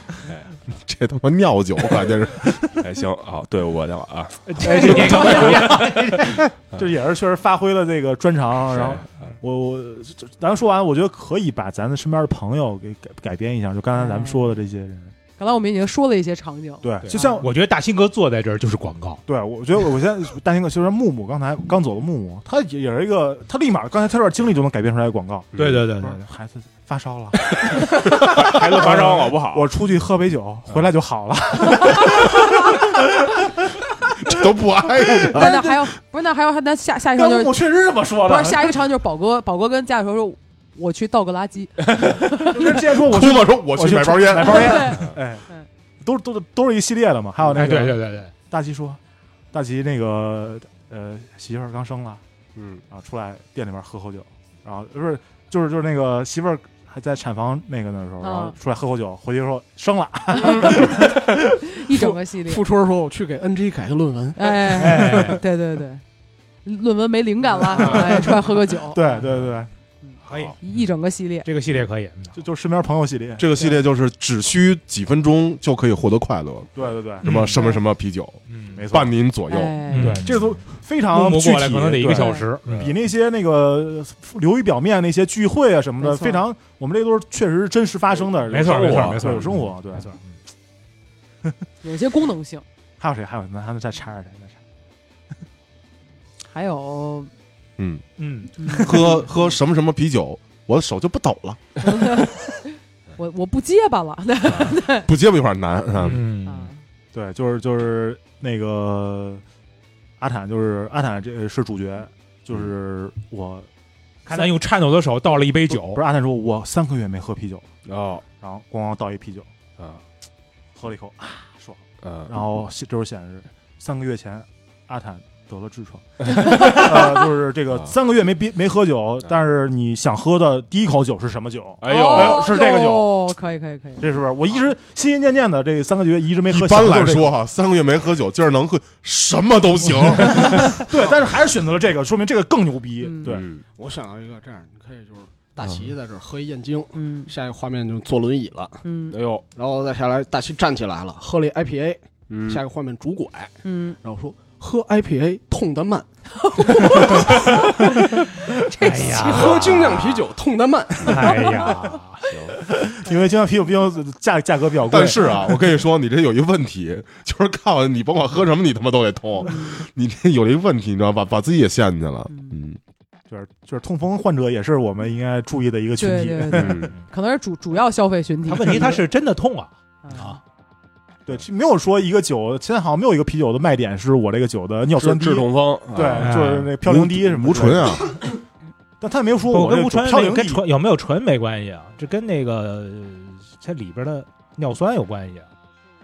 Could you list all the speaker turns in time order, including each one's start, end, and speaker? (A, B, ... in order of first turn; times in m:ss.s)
0:00.7-0:02.8 A
0:02.8-0:05.9 B
0:04.5-0:06.5 C
0:04.9-0:05.4 D
0:06.7-0:15.1 D
0:08.8-0:09.1 B
0:14.0-0:14.4 E
0:15.4-0:17.2 E
0:16.8-0:17.5 D
0:17.1-0:19.2 C
0:19.3-0:33.6 D
0:25.6-0:25.8 B
0:25.6-0:26.2 C
0:28.2-0:29.7 B
0:34.2-0:35.7 A
0:35.1-0:35.6 D
0:35.3-0:37.6 E
0:37.2-0:38.8 D
0:38.2-0:42.8 E
0:42.4-0:45.4 D
0:42.9-0:44.9 A
0:44.4-0:45.7 E
0:46.0-0:49.0 D
0:47.5-0:48.3 C
0:49.5-0:52.2 D
0:52.6-0:52.8 B
0:52.9-1:01.4 D
0:58.2-0:58.6 E
1:00.3-1:01.2 E
1:01.8-1:02.6 E
1:01.9-1:05.0 F
1:04.4-1:06.0 E
1:04.8-1:05.4 C
1:06.6-1:09.2 E
1:07.7-1:08.4 D
1:08.9-1:09.7 D
1:10.0-1:11.5 E
1:10.3-1:10.7 C
1:11.4-1:12.4 C
1:12.4-1:13.5 D
1:13.4-1:16.7 A
1:16.8-1:17.5 D
1:17.2-1:19.8 A
1:17.3-1:17.6 C
1:18.5-1:18.8 C
1:18.7-1:19.2 D
1:19.5-1:20.3 E
1:19.9-1:20.6 C
1:20.0-1:30.1 D
1:21.1-1:22.7 C
1:22.1-1:22.5 E
1:22.7-1:22.9 B
1:26.0-1:26.4 E
1:28.5-1:29.3 B
1:28.5-1:30.2 C
1:31.8-1:32.6 E
1:33.0-1:34.6 D
1:36.5-1:37.3 E
1:37.8-1:38.1 A
1:38.2-1:39.1 C
1:38.6-1:39.2 E
1:38.6-1:42.3 A
1:41.8-1:42.6 E
1:43.2-1:45.1 E
1:44.6-1:46.3 A
1:46.0-1:46.7 C
1:46.4-1:46.8 E
1:47.1-1:49.4 D
1:50.2-1:53.7 D
1:54.3-1:56.0 C
1:55.7-1:57.7 D
1:57.9-1:58.2 B
1:58.4-1:59.5 D
2:00.8-2:13.3 D
2:02.0-2:02.3 B
2:06.4-2:06.9 E
2:11.8-2:12.5 B
2:11.8-2:14.0 E
2:14.0-2:17.3 D
2:16.5-2:20.8 A
2:20.4-2:23.4 D
2:23.0-2:23.4 E
2:23.2-2:23.6 B
2:23.8-2:28.8 F
2:26.9-2:27.3 E
2:28.8-2:29.2 E
2:29.1-2:29.4 B
2:29.5-2:36.1 F
2:32.3-2:32.6 B
2:33.6-2:34.0 E
2:36.4-2:38.0 E
2:38.7-2:39.6 E
2:38.8-2:40.0 C
2:39.2-2:41.3 F
2:39.9-2:40.2 B
2:41.0-2:42.4 C
2:41.1-2:41.6 D
2:42.3-2:42.6 B
2:42.7-2:45.6 D
2:44.8-2:52.8 A
2:49.4-2:49.8 E
2:52.3-2:52.5 E
2:53.3-2:56.9 D
2:56.0-2:59.0 E
2:56.5-2:56.9 B
2:58.5-3:00.4 C
3:00.0-3:00.4 E
3:01.3-3:08.1 D
3:05.0-3:06.3 B
3:06.0-3:06.7 C
3:06.8-3:08.2 A
3:09.0-3:10.6 D
3:09.5-3:15.5 C